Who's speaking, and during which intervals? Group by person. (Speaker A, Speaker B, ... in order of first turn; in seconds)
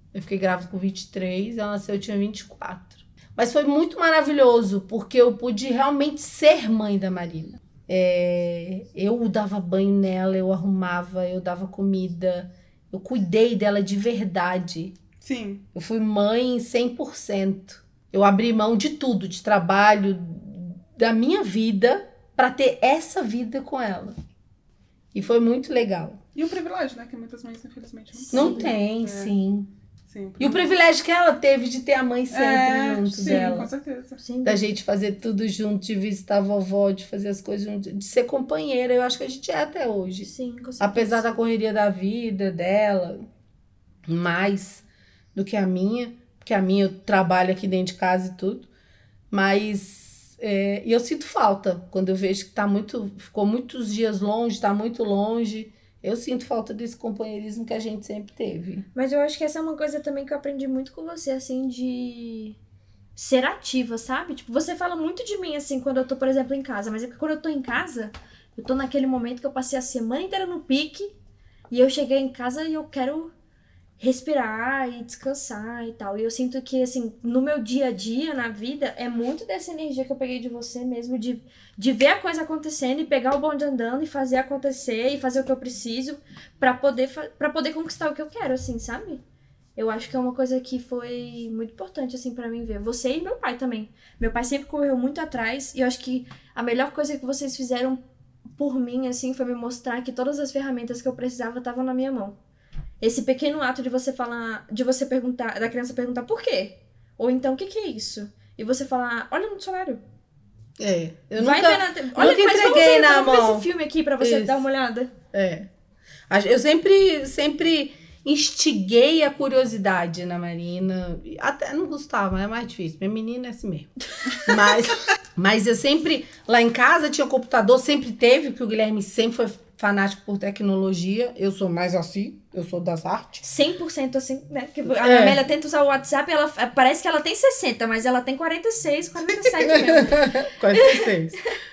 Speaker A: 0.1-14.9, 15.8-24.1, 25.1-26.2, 28.3-29.7, 30.4-33.7, 34.4-43.2, 44.1-44.8, 45.4-48.7, 49.3-58.9, 110.8-114.6, 115.3-115.7, 116.3-123.9, 124.4-133.4, 135.0-135.4, 139.6-141.4
Speaker B: 15.2-15.6, 26.4-29.3, 30.1-30.6, 32.3-34.2
Speaker C: 28.1-28.7, 33.2-33.6, 34.2-34.6, 40.2-41.2, 59.0-62.6, 63.2-71.1, 71.7-73.3, 74.0-89.2, 89.8-98.0, 98.6-102.4, 103.0-110.0, 111.4-115.1, 133.4-141.1